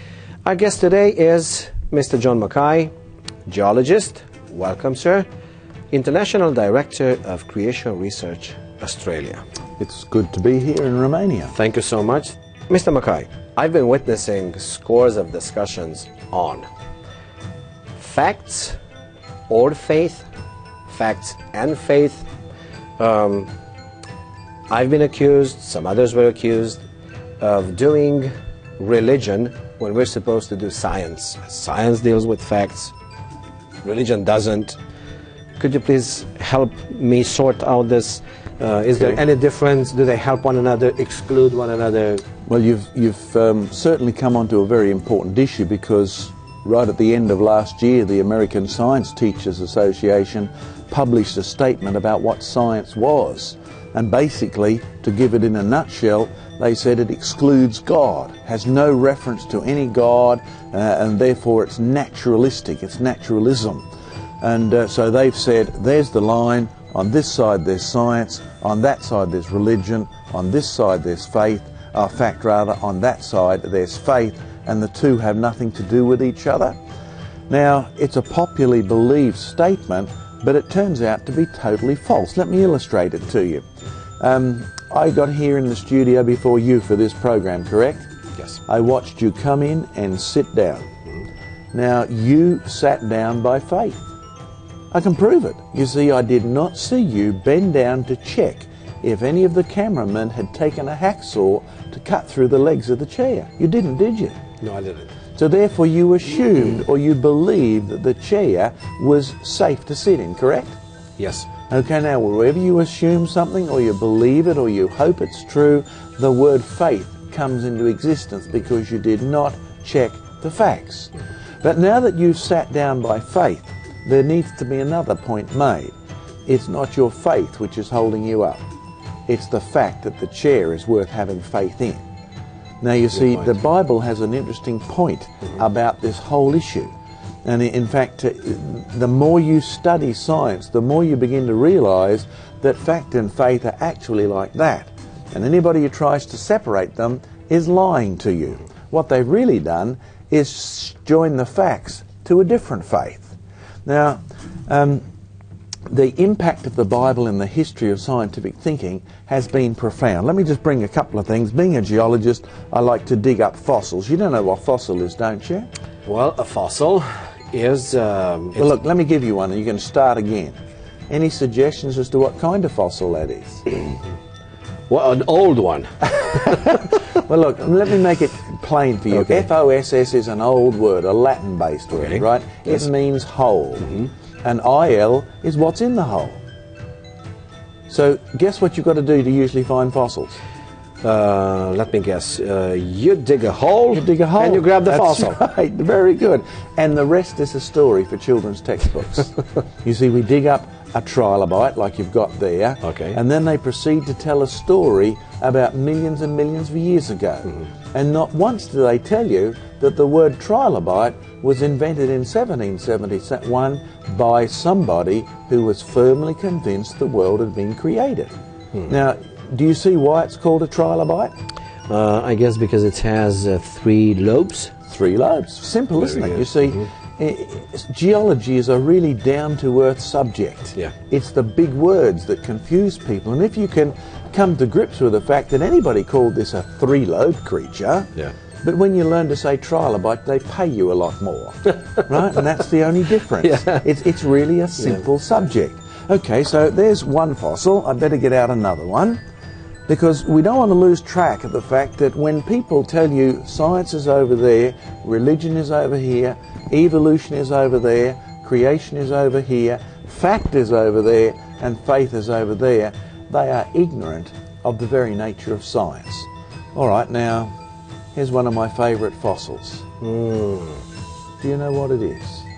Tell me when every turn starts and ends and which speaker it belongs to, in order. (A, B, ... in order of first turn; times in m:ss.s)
0:00.4-0:02.9 A
0:03.4-0:05.2 A
0:05.9-0:09.4 A
0:09.8-0:11.5 B
0:11.5-0:16.6 A
0:17.9-0:18.8 A
0:19.5-0:20.2 A
0:20.9-0:22.3 A
0:23.0-0:23.5 A
0:24.7-0:26.8 A
0:27.4-0:32.9 A
0:33.8-0:34.8 A
0:35.6-0:42.2 A
0:42.4-1:03.8 B
1:04.4-1:16.8 B
1:17.5-1:23.6 B
1:24.2-1:28.1 B
1:28.6-1:31.0 B
1:31.7-1:34.0 B
1:34.9-1:44.4 B
1:44.6-1:45.1 A
1:45.4-1:50.8 B
1:51.2-1:51.5 A
1:51.7-2:05.9 B
2:06.5-2:08.6 B
2:09.3-2:12.0 B
2:12.8-2:35.0 B
2:35.9-2:45.7 B
2:46.0-2:48.7 A
2:48.6-2:50.6 B
2:51.1-2:53.6 B
2:54.9-2:56.8 A
2:56.1-3:06.4 B
2:59.1-2:59.5 A
3:01.9-3:02.8 A
3:07.9-3:10.3 B
3:11.0-3:15.4 A
3:13.9-3:38.3 B
3:22.8-3:23.2 A
3:38.8-3:41.3 B
3:41.9-3:44.7 A
3:44.8-4:09.2 B
3:46.0-3:46.8 A
4:03.4-4:03.8 A
4:09.9-4:27.5 B
4:28.1-4:29.9 B
4:30.0-4:30.8 A
4:31.4-4:32.5 B